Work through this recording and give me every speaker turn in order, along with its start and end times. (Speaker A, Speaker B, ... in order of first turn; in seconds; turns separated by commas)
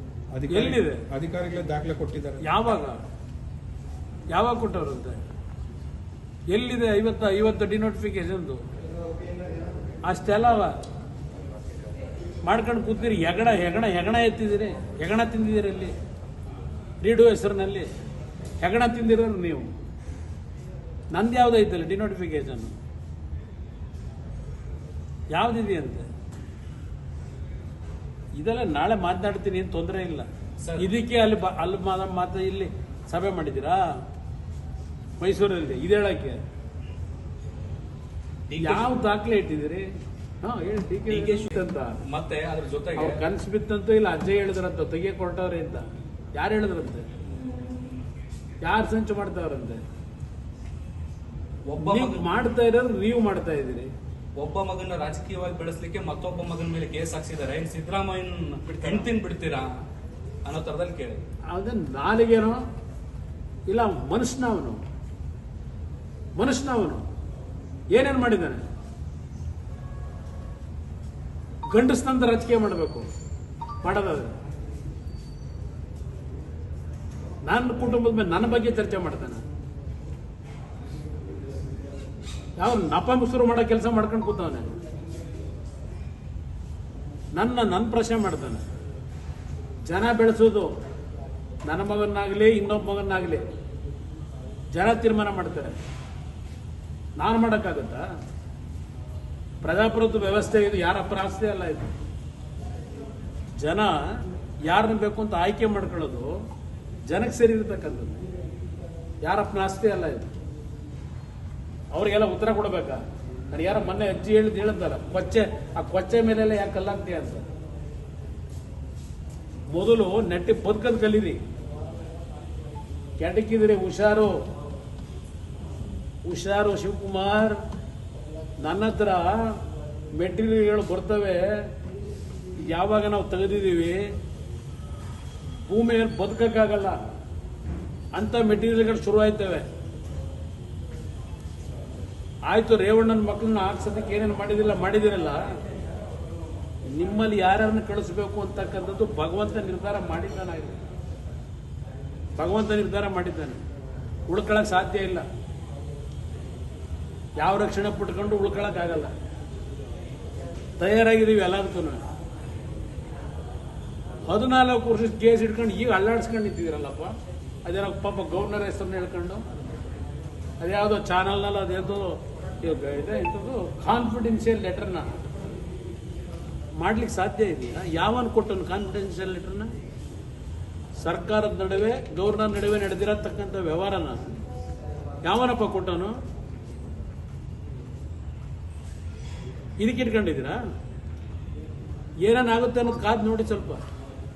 Speaker A: 0.3-2.4, Speaker B: 0.5-1.0, Speaker B: 2.4-3.0, Speaker B: 4.3-5.2, Speaker B: 6.5-8.6, Speaker B: 10.1-10.8, Speaker B: 12.5-15.9, Speaker B: 17.0-17.9, Speaker B: 18.6-19.7, Speaker B: 21.1-22.8, Speaker B: 25.3-26.1, Speaker B: 28.4-33.8, Speaker C: 30.6-30.9, Speaker B: 35.2-36.4, Speaker C: 38.5-39.0, Speaker B: 38.6-39.9, Speaker B: 40.4-42.0, Speaker C: 41.1-43.2, Speaker B: 43.0-45.8, Speaker B: 46.4-47.0, Speaker B: 48.6-49.8, Speaker C: 51.6-52.3, Speaker B: 51.8-53.9, Speaker C: 54.4-59.7, Speaker C: 60.5-61.2, Speaker B: 61.5-62.6, Speaker B: 63.7-64.8, Speaker B: 66.4-67.0, Speaker B: 67.9-68.6, Speaker B: 71.7-73.1, Speaker B: 73.8-74.3, Speaker B: 77.5-79.4, Speaker B: 82.6-84.7, Speaker B: 87.3-88.6, Speaker B: 89.9-90.7, Speaker B: 91.7-93.4, Speaker B: 94.7-95.8, Speaker B: 97.2-98.0, Speaker B: 99.6-101.9, Speaker B: 103.6-106.3, Speaker B: 107.1-108.2, Speaker B: 109.2-110.3, Speaker B: 111.9-117.5, Speaker B: 119.7-121.4, Speaker B: 123.2-124.3, Speaker B: 126.3-127.6, Speaker B: 128.6-129.5, Speaker B: 130.2-131.4, Speaker B: 132.6-134.1, Speaker B: 135.7-137.0, Speaker B: 138.1-139.7, Speaker B: 142.5-145.4, Speaker B: 146.9-150.8, Speaker B: 152.4-153.6, Speaker B: 154.3-155.2, Speaker B: 157.4-159.1, Speaker B: 160.8-162.0, Speaker B: 164.3-167.1, Speaker B: 167.7-169.4, Speaker B: 170.6-175.1, Speaker B: 176.8-179.7, Speaker B: 181.0-184.2, Speaker B: 185.2-186.2, Speaker B: 189.8-190.6, Speaker B: 192.3-193.8